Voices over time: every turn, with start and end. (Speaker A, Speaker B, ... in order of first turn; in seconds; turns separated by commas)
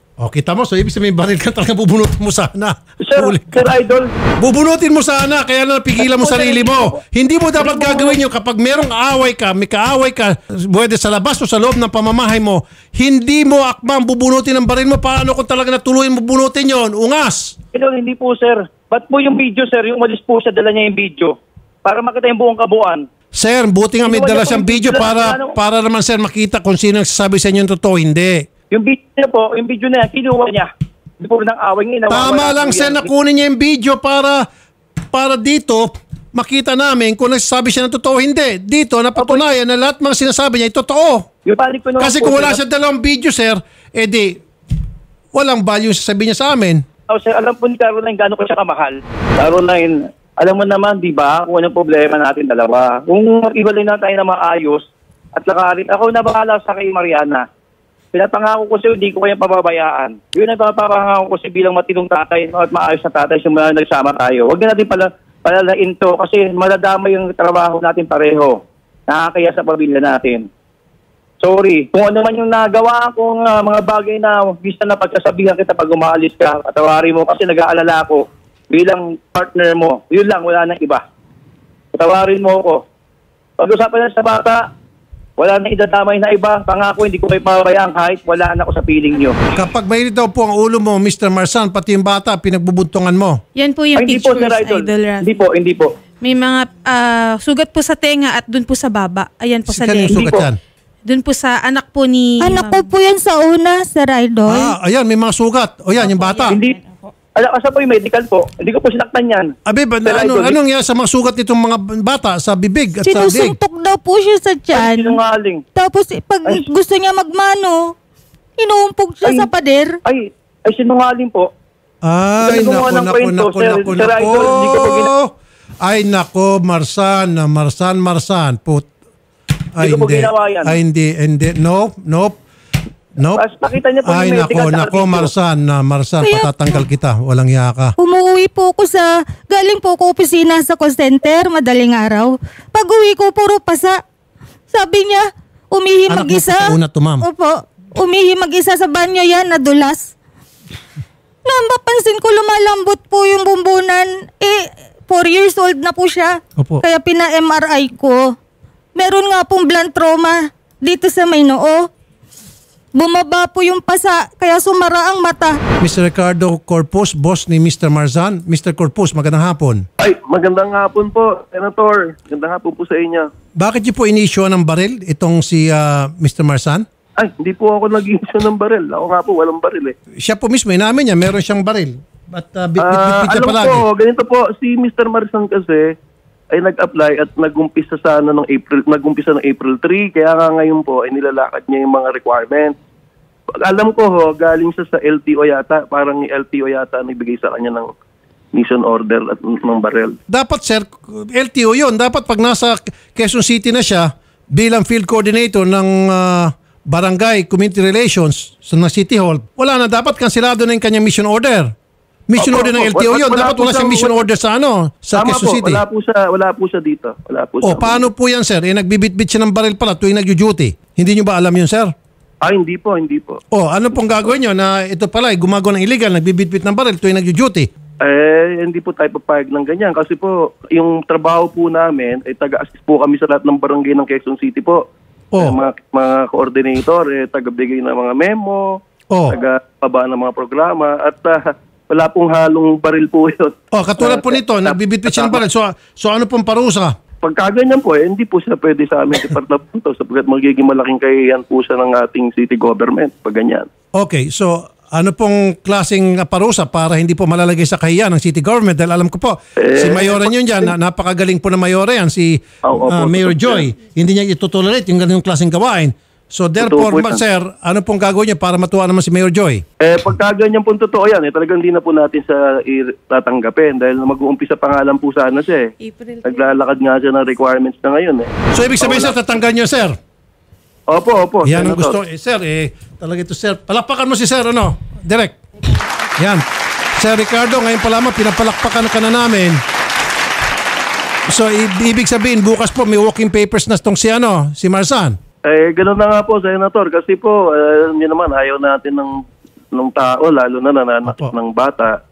Speaker A: 0.2-3.7, Speaker B: 3.0-4.1, Speaker A: 4.4-17.6, Speaker B: 6.0-7.0, Speaker B: 7.6-8.2, Speaker B: 17.7-23.1, Speaker A: 23.4-28.5, Speaker B: 24.1-25.6, Speaker B: 28.7-33.1, Speaker A: 32.1-34.5, Speaker A: 35.1-41.3, Speaker B: 41.5-42.6, Speaker A: 42.0-44.4, Speaker A: 45.3-46.8, Speaker B: 47.1-54.8, Speaker B: 55.4-57.5, Speaker B: 58.1-70.5, Speaker B: 71.4-81.0, Speaker B: 81.9-82.8, Speaker B: 83.6-84.7, Speaker B: 85.4-89.4, Speaker A: 89.5-93.4, Speaker C: 93.6-95.4, Speaker B: 94.0-95.9, Speaker C: 96.2-100.4, Speaker A: 99.7-100.6, Speaker B: 100.1-100.5, Speaker C: 101.0-102.9, Speaker D: 102.4-104.7, Speaker A: 104.5-106.6, Speaker C: 106.0-107.1, Speaker B: 106.5-106.8, Speaker B: 107.4-109.5, Speaker A: 109.7-113.6, Speaker B: 110.0-110.6, Speaker D: 113.0-115.2, Speaker B: 114.7-115.6, Speaker D: 115.8-117.9, Speaker D: 118.6-120.0, Speaker B: 120.0-121.5, Speaker A: 122.0-128.9, Speaker B: 122.4-125.1, Speaker A: 129.8-132.4, Speaker B: 129.8-130.8, Speaker B: 133.3-135.3, Speaker A: 134.1-137.9, Speaker D: 136.2-136.8, Speaker D: 138.0-144.0, Speaker D: 144.7-150.1, Speaker A: 146.1-147.2, Speaker D: 151.5-158.3, Speaker D: 159.0-161.9, Speaker D: 162.9-165.6, Speaker A: 165.8-169.8, Speaker E: 170.0-173.3, Speaker A: 173.6-176.8, Speaker E: 177.2-179.9, Speaker A: 180.2-183.8, Speaker E: 182.8-185.9, Speaker E: 186.5-192.8, Speaker E: 193.6-197.9, Speaker E: 198.5-200.2, Speaker A: 200.3-211.7, Speaker A: 212.3-215.8, Speaker E: 212.4-214.3, Speaker E: 215.1-218.1, Speaker A: 217.6-221.9, Speaker E: 222.4-223.4, Speaker A: 223.5-227.7, Speaker E: 228.0-234.8, Speaker A: 235.3-235.6, Speaker E: 235.4-238.7, Speaker A: 239.1-239.4, Speaker E: 239.3-245.4, Speaker A: 243.7-246.9, Speaker E: 247.2-253.7, Speaker A: 254.0-269.6, Speaker E: 259.6-260.7, Speaker E: 262.7-263.7, Speaker E: 266.6-267.2, Speaker E: 269.8-275.7, Speaker C: 275.8-276.6, Speaker E: 276.2-279.2, Speaker A: 278.5-280.0, Speaker E: 280.9-282.0, Speaker A: 281.4-285.4, Speaker A: 286.2-286.4, Speaker A: 287.0-289.6, Speaker A: 291.3-295.2, Speaker E: 295.5-299.2, Speaker E: 299.7-302.0, Speaker A: 301.1-301.3